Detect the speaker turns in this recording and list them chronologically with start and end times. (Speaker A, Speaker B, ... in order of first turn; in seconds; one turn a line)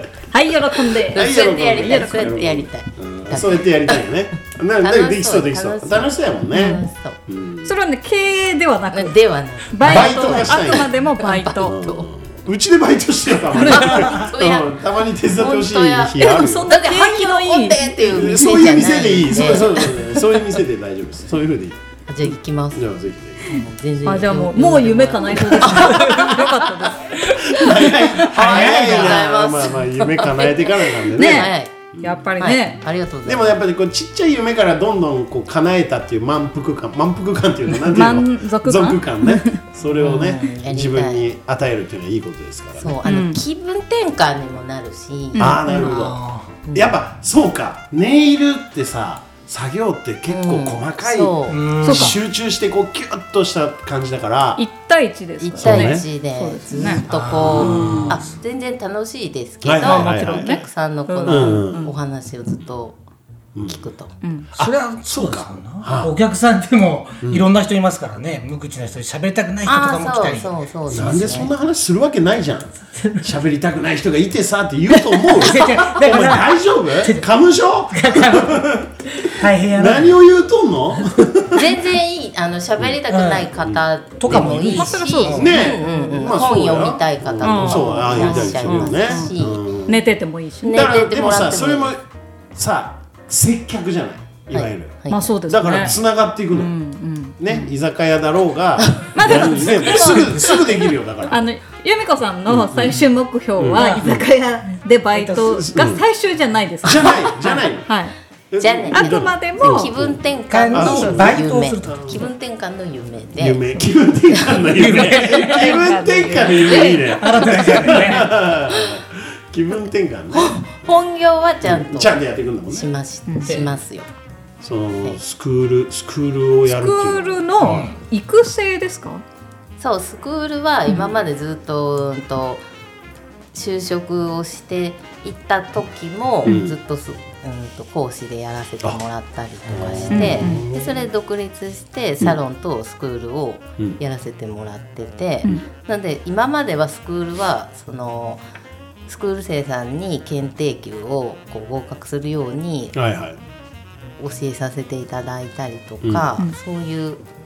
Speaker A: 0.3-2.4
Speaker B: 1.1-4.0
Speaker C: 1.1-7.7
Speaker B: 4.8-7.2
Speaker A: 6.5-6.8
Speaker A: 7.6-11.8
Speaker B: 8.9-12.1
Speaker C: 9.8-10.9
Speaker C: 11.6-16.7
Speaker A: 13.5-14.2
Speaker B: 13.6-14.7
Speaker B: 15.3-20.4
Speaker A: 16.2-18.2
Speaker C: 18.0-23.6
Speaker B: 22.1-22.9
Speaker B: 23.4-26.7
Speaker A: 24.0-27.8
Speaker C: 27.3-32.2
Speaker D: 28.2-29.2
Speaker B: 28.3-31.7
Speaker A: 31.2-32.8
Speaker B: 32.4-33.6
Speaker C: 33.2-43.0
Speaker A: 37.8-39.6
Speaker B: 40.0-41.2
Speaker B: 42.8-46.0
Speaker A: 43.0-43.4
Speaker A: 45.3-45.6
Speaker C: 45.4-54.6
Speaker D: 45.7-46.5
Speaker B: 46.7-46.9
Speaker B: 50.3-51.7
Speaker D: 51.5-52.2
Speaker A: 51.8-52.1
Speaker A: 54.6-57.0
Speaker B: 55.4-63.0
Speaker C: 55.6-56.0
Speaker D: 57.1-58.3
Speaker C: 57.2-58.2
Speaker A: 57.6-58.1
Speaker C: 59.6-60.6
Speaker A: 59.8-61.9
Speaker C: 61.2-61.9
Speaker C: 63.5-63.8
Speaker B: 63.6-64.1
Speaker A: 64.2-64.5
Speaker D: 64.5-71.4
Speaker C: 64.5-66.1
Speaker C: 67.2-67.5
Speaker B: 69.6-71.5
Speaker C: 70.9-81.8
Speaker D: 72.9-73.3
Speaker D: 75.3-77.3
Speaker D: 77.9-80.2
Speaker B: 81.5-89.6
Speaker D: 83.1-83.5
Speaker C: 83.6-84.7
Speaker D: 84.2-85.5
Speaker A: 84.7-86.4
Speaker C: 85.3-90.0
Speaker A: 87.4-89.3
Speaker A: 89.8-90.9
Speaker B: 90.6-91.9
Speaker C: 90.7-92.0
Speaker C: 92.5-96.7
Speaker B: 94.5-95.3
Speaker A: 95.1-96.0
Speaker A: 96.5-97.7
Speaker C: 97.4-101.4
Speaker B: 98.8-100.8
Speaker A: 99.2-100.7
Speaker D: 99.6-100.5
Speaker A: 101.2-108.1
Speaker C: 102.5-103.0
Speaker C: 103.6-104.2
Speaker D: 103.7-104.2
Speaker D: 105.1-105.7
Speaker C: 105.4-106.0
Speaker C: 106.8-107.9
Speaker C: 108.5-112.2
Speaker B: 108.6-113.7
Speaker A: 108.9-109.9
Speaker D: 110.5-112.2
Speaker C: 113.4-120.7
Speaker B: 114.3-114.7
Speaker D: 114.7-115.8
Speaker A: 115.2-117.5
Speaker D: 117.0-118.3
Speaker B: 120.3-122.2
Speaker C: 121.6-122.9
Speaker B: 122.7-124.1
Speaker A: 123.3-123.6
Speaker C: 124.6-127.9
Speaker A: 126.7-129.2
Speaker D: 127.6-127.9
Speaker B: 129.8-132.6
Speaker B: 133.5-148.4
Speaker C: 136.4-136.8
Speaker C: 139.7-141.1
Speaker A: 140.1-140.6
Speaker B: 149.1-152.9
Speaker C: 152.9-153.4
Speaker B: 154.2-157.2
Speaker C: 156.0-156.3